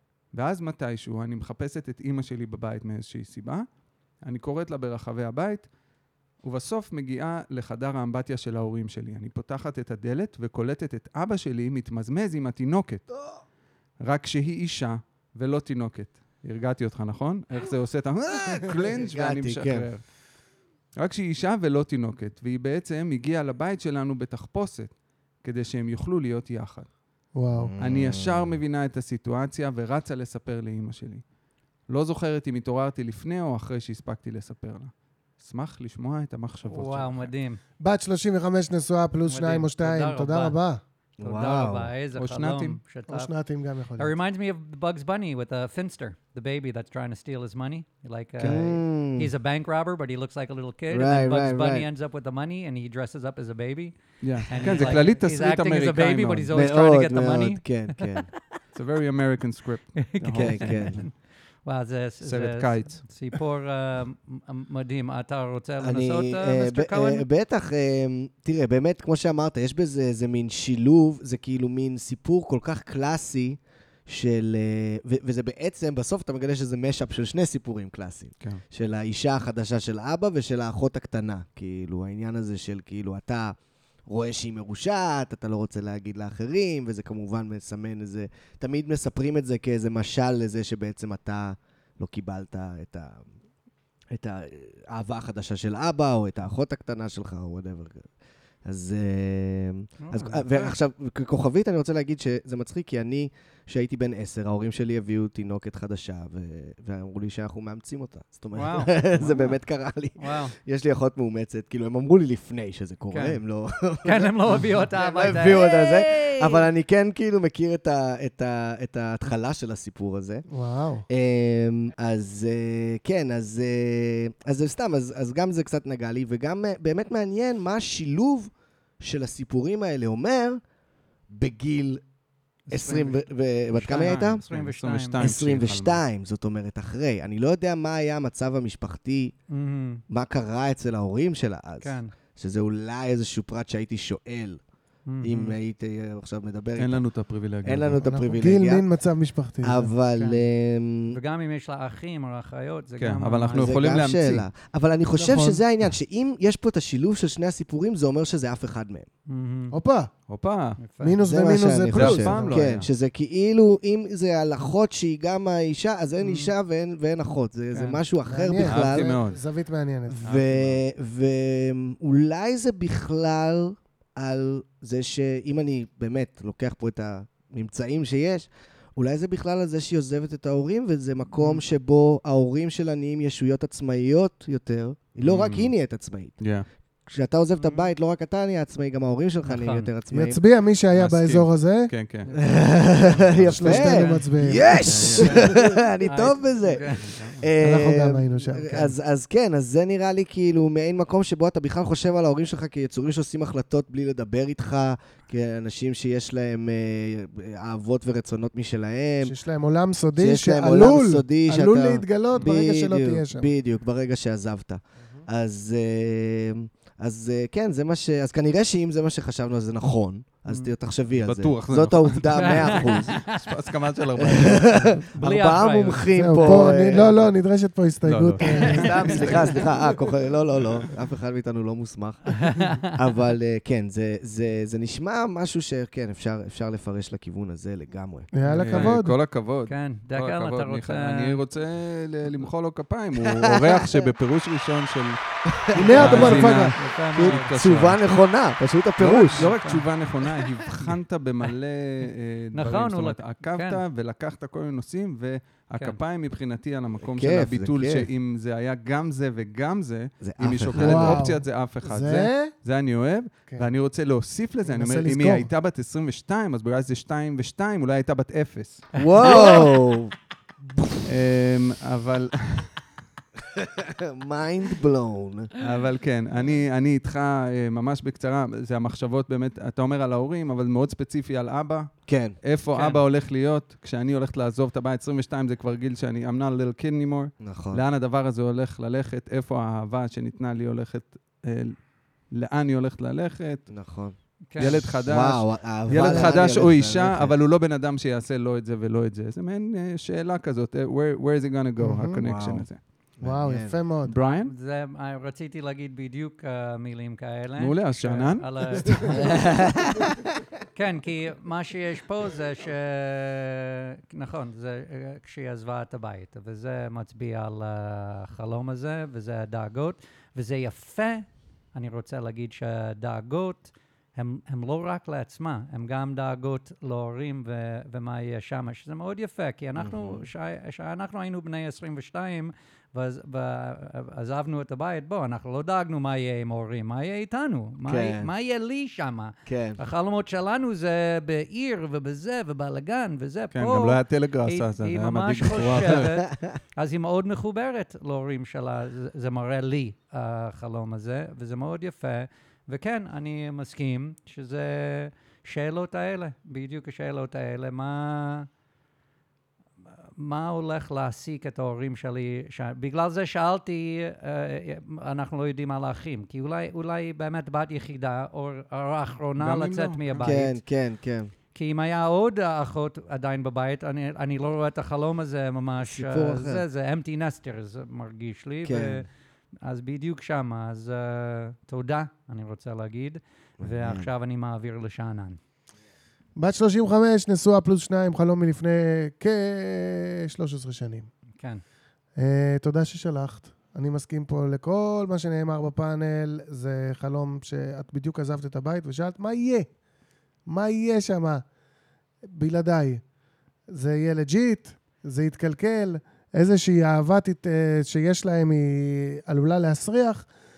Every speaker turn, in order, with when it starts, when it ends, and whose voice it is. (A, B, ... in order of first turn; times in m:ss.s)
0:00.3-0:03.6 A
0:04.2-0:05.7 A
0:06.4-0:13.1 A
0:14.0-0:20.0 A
0:18.6-0:19.9 B
0:21.0-0:26.9 A
0:27.3-0:27.7 C
0:27.6-0:28.6 B
0:27.8-0:31.2 A
0:31.9-0:37.3 A
0:36.7-0:37.6 D
0:37.8-0:40.8 C
0:39.3-0:40.5 D
0:41.2-0:41.9 B
0:41.2-0:43.3 D
0:42.2-0:42.8 A
0:43.1-0:44.1 C
0:44.0-0:53.9 D
0:48.4-0:49.3 B
0:50.9-0:51.9 B
0:54.2-0:56.5 A
0:54.5-0:58.2 D
0:54.6-0:54.9 B
0:56.5-0:58.3 B
0:58.7-1:01.1 A
1:00.0-1:01.1 D
1:00.3-1:01.0 B
1:01.6-1:07.2 D
1:02.2-1:03.0 A
1:05.8-1:23.6 B
1:24.1-1:33.3 B
1:34.1-1:38.1 B
1:38.6-2:00.4 B
1:40.0-1:40.7 D
1:48.5-1:49.3 D
1:49.2-1:49.4 A
1:50.2-1:50.5 D
1:53.1-1:53.4 D
1:54.0-1:56.6 D
2:00.5-2:01.0 C
2:01.1-2:10.6 B
2:11.3-2:12.0 B
2:12.7-2:13.2 D
2:12.7-2:14.4 B
2:13.7-2:15.2 D
2:13.9-2:16.0 A
2:15.2-2:19.3 B
2:19.5-2:20.0 D
2:20.1-2:24.6 B
2:21.8-2:22.1 D
2:25.1-2:25.5 D
2:25.2-2:27.0 B
2:26.8-2:28.0 A
2:27.6-2:28.8 B
2:28.0-2:29.9 C
2:29.6-2:31.2 B
2:30.2-2:30.4 D
2:31.1-2:33.8 D
2:33.0-2:34.4 A
2:33.5-2:39.1 B
2:35.1-2:35.6 C
2:39.3-2:39.7 D
2:39.7-2:40.1 C
2:40.3-2:40.8 A
2:40.8-2:41.2 D
2:41.0-2:42.6 C
2:41.2-2:49.2 B
2:41.9-2:42.9 A
2:46.2-2:46.5 D
2:47.7-2:48.0 D
2:48.3-2:50.2 C
2:48.6-2:49.4 A
2:50.2-2:50.8 A
2:50.2-3:06.4 B
3:05.2-3:05.7 A
3:06.4-3:06.6 A
3:07.0-3:10.4 B
3:07.6-3:07.9 D
3:09.4-3:09.9 D
3:10.1-3:11.9 C
3:10.9-3:12.3 A
3:12.2-3:12.6 D
3:12.3-3:29.4 B
3:13.3-3:13.8 A
3:13.4-3:15.4 C
3:13.7-3:14.6 D
3:16.0-3:17.2 D
3:17.1-3:17.4 A
3:17.6-3:18.9 C
3:29.2-3:33.5 C
3:30.2-3:43.1 B
3:41.2-3:44.9 A
3:42.3-3:43.4 D
3:44.2-3:47.1 B
3:45.2-3:46.7 D
3:46.1-3:49.6 C
3:48.0-3:49.7 A
3:48.4-3:58.3 B
3:49.1-3:49.4 D
3:52.3-3:52.9 D
3:58.3-3:59.2 C
3:58.5-3:59.0 D
3:58.6-4:05.2 A
3:59.7-4:01.4 D
4:03.3-4:04.1 B
4:05.5-4:06.5 B
4:05.7-4:06.8 C
4:05.9-4:08.0 A
4:05.9-4:07.5 D
4:07.2-4:09.5 B
4:09.0-4:28.9 A
4:09.3-4:09.9 D
4:12.5-4:13.8 D
4:17.0-4:18.1 B
4:20.2-4:21.3 B
4:20.8-4:22.5 C
4:24.7-4:25.5 C
4:28.9-4:30.1 B
4:29.0-4:29.7 D
4:31.0-4:32.7 A
4:33.4-4:35.5 B
4:35.6-4:51.8 A
4:42.1-4:42.4 B
4:42.7-4:43.0 D
4:47.4-4:47.8 B
4:52.3-4:53.7 A
4:53.7-4:57.4 B
4:54.5-4:54.8 D
4:54.6-5:02.8 A
5:01.8-5:02.2 C
5:02.2-5:02.7 B
5:03.2-5:03.8 B
5:03.2-5:04.1 C
5:04.0-5:04.5 A
5:04.2-5:09.5 D
5:07.6-5:09.2 A
5:09.1-5:10.2 B
5:10.7-5:58.5 D
5:29.8-5:30.3 B
5:37.8-5:38.3 B
5:39.5-5:39.8 B
5:43.5-5:46.1 A
5:46.0-5:46.6 B
6:00.2-6:10.6 D
6:09.4-6:10.3 A
6:10.2-6:11.3 B
6:11.5-6:19.0 D
6:15.8-6:16.6 B
6:18.6-6:19.1 B
6:19.6-6:25.4 D
6:23.6-6:24.1 B
6:26.4-6:31.1 C
6:32.2-6:39.7 C
6:40.5-6:41.4 C
6:42.3-6:43.0 C
6:43.7-6:50.3 C